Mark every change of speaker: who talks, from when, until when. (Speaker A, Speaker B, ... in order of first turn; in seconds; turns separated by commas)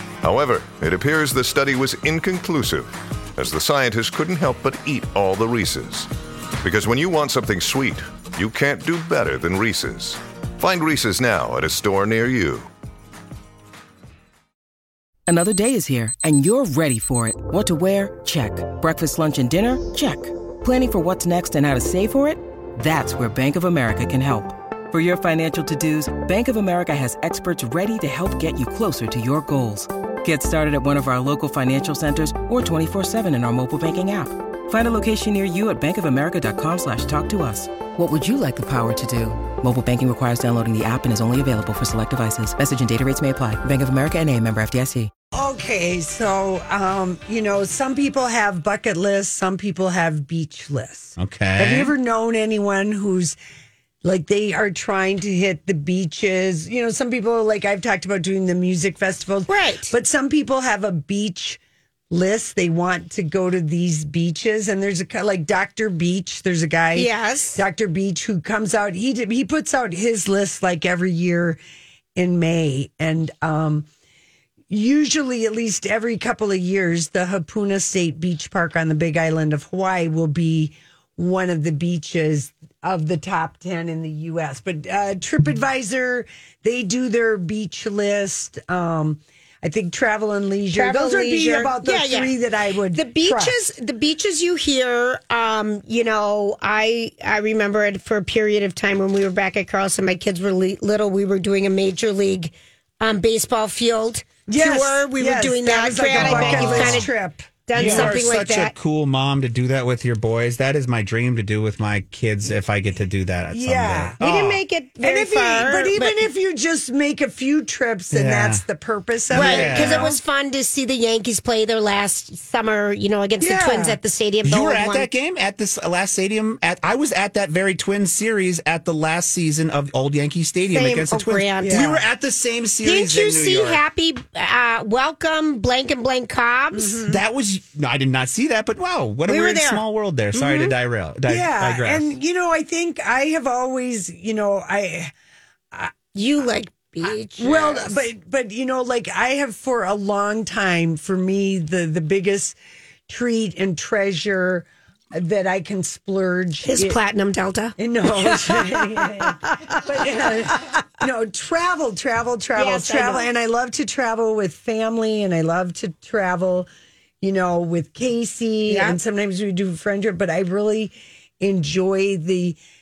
Speaker A: 0.2-6.1, Speaker A: 6.6-12.7, Speaker B: 15.3-45.1, Speaker C: 45.3-53.4, Speaker D: 51.2-51.9, Speaker C: 54.0-61.6, Speaker E: 59.5-59.9, Speaker C: 62.1-71.6, Speaker E: 67.0-67.6, Speaker C: 72.2-73.9, Speaker C: 74.7-93.6, Speaker E: 90.7-92.3, Speaker E: 92.9-107.1, Speaker C: 104.5-108.2, Speaker D: 106.2-107.1, Speaker E: 107.7-108.7, Speaker D: 107.7-114.6, Speaker C: 113.5-114.2, Speaker E: 114.2-116.2, Speaker C: 115.0-120.2, Speaker D: 118.1-118.6, Speaker D: 119.3-120.1, Speaker E: 119.3-125.1, Speaker C: 123.4-124.0, Speaker D: 124.5-133.8, Speaker E: 130.7-131.9, Speaker C: 131.6-132.1, Speaker E: 132.8-137.1, Speaker C: 136.7-137.2, Speaker D: 137.1-142.1, Speaker E: 139.3-140.7, Speaker C: 141.3-145.1, Speaker E: 146.1-148.1, Speaker C: 147.4-152.6, Speaker C: 153.1-157.0, Speaker E: 156.7-158.8, Speaker C: 157.8-166.7, Speaker E: 162.6-163.3, Speaker C: 167.2-172.6, Speaker E: 168.7-169.0